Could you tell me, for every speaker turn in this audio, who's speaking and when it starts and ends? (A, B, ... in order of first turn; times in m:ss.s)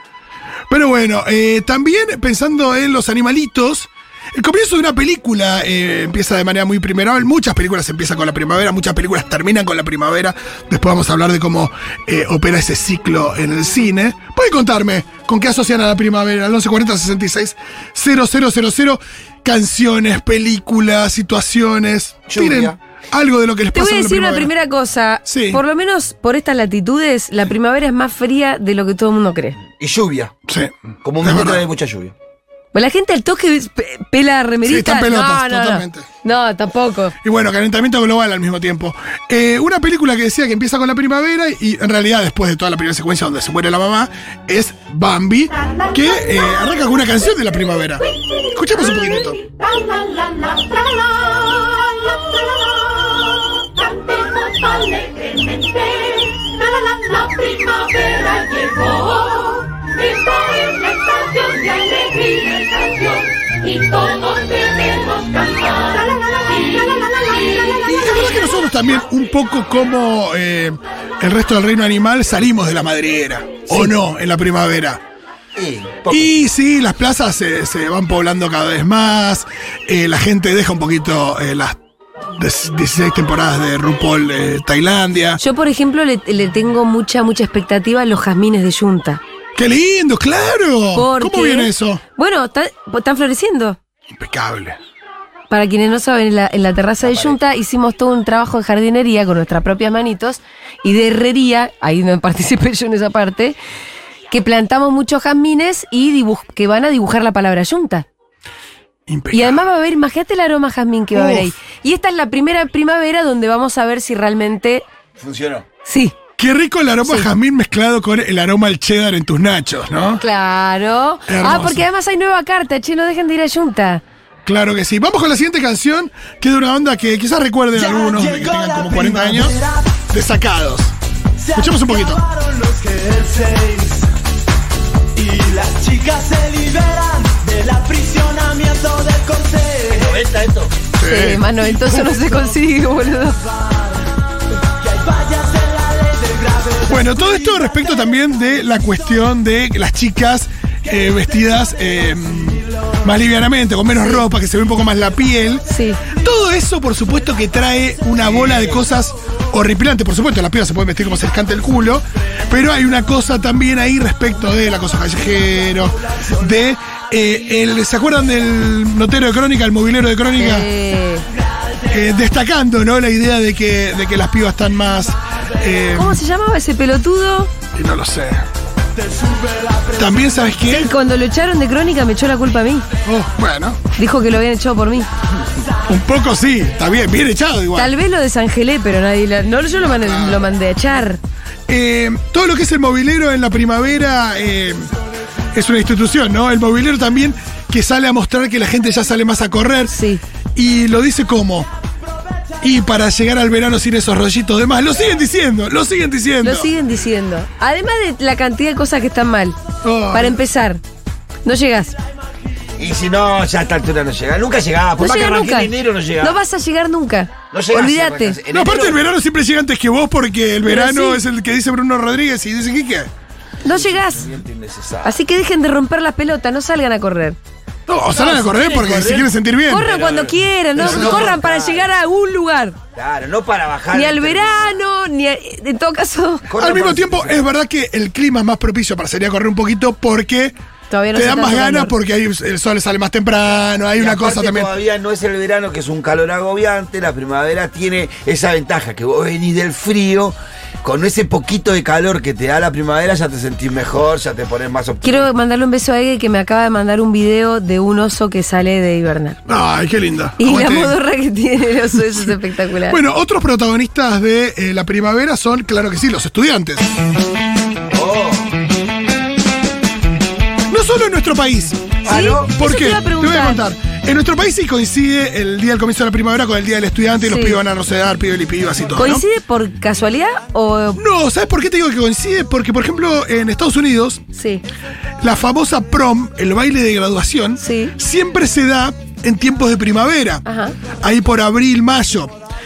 0:00.7-0:24.5 A
0:22.3-0:22.8 B
0:23.7-0:29.6 C
0:25.2-0:25.6 A
0:29.8-0:30.3 B
0:30.5-0:31.6 A
0:31.0-0:32.1 B
0:32.7-0:37.1 C
0:34.6-0:36.0 A
0:37.2-0:49.4 A
0:58.2-1:00.7 D
1:01.4-1:02.4 D
1:07.8-1:15.0 A
1:15.6-1:16.3 B
1:16.1-1:21.7 A
1:22.4-1:25.4 A
1:25.4-1:29.2 C
1:29.6-1:32.0 A
1:30.9-1:33.8 C
1:34.1-1:34.8 A
1:35.5-1:43.6 C
1:37.0-1:37.4 B
1:44.3-1:48.0 C
1:49.1-1:49.6 A
1:49.3-1:54.8 C
1:51.1-1:51.5 A
1:55.2-1:55.6 B
1:55.8-1:56.1 C
1:56.4-2:00.2 A
2:00.2-2:04.0 C
2:01.3-2:01.9 A
2:04.4-2:10.9 A
2:11.5-2:12.2 A
2:12.6-2:13.7 E
2:15.3-2:19.2 E
2:19.9-2:20.7 B
2:21.0-2:22.1 A
2:21.0-2:23.4 C
2:26.8-2:50.7 A
2:33.9-2:34.2 C
2:35.7-2:36.0 C
2:38.4-2:38.7 B
2:50.4-2:51.2 C
2:51.9-2:56.2 A
2:55.9-2:57.5 C
2:57.7-2:58.4 A
2:59.9-3:00.9 A
3:00.7-3:02.8 C
3:03.0-3:03.8 A
3:03.9-3:05.1 C
3:05.9-3:07.9 A
3:07.7-3:11.2 C
3:09.8-3:10.5 A
3:11.7-3:14.8 A
3:15.5-3:19.9 A
3:19.9-3:20.2 C
3:20.6-3:21.7 A
3:22.6-3:26.7 A
3:26.4-3:29.6 C
3:29.8-3:30.4 A
3:30.1-3:30.8 C
3:31.4-3:32.0 C
3:32.8-3:36.4 B
3:35.0-3:38.4 C
3:37.5-3:39.0 B
3:38.5-3:43.1 A
3:40.6-3:41.2 C
3:43.6-3:44.3 C
3:43.6-3:45.2 B
3:45.0-3:47.4 C
3:47.9-3:49.9 A
3:48.2-3:49.3 B
3:49.7-3:52.8 C
3:49.8-3:51.9 B
3:50.8-3:51.3 A
3:53.0-3:54.8 B
3:53.9-3:56.4 C
3:56.5-3:57.4 B
3:56.6-4:00.5 A
4:00.9-4:01.9 C
4:01.1-4:04.7 A
4:04.0-4:15.3 B
4:15.0-4:19.4 C
4:19.5-4:21.0 A
4:20.4-4:23.0 C
4:22.9-4:26.9 A
4:27.9-4:28.5 B
4:30.7-4:31.9 A
4:32.0-4:32.5 B
4:32.1-4:33.6 C
4:32.5-4:39.2 A
4:37.2-4:37.6 C
4:38.9-4:41.0 C
4:41.0-4:44.2 A
4:44.3-4:44.6 C
4:45.2-4:50.4 A
4:47.6-4:47.9 C
4:50.4-4:50.8 C
4:51.0-4:52.3 A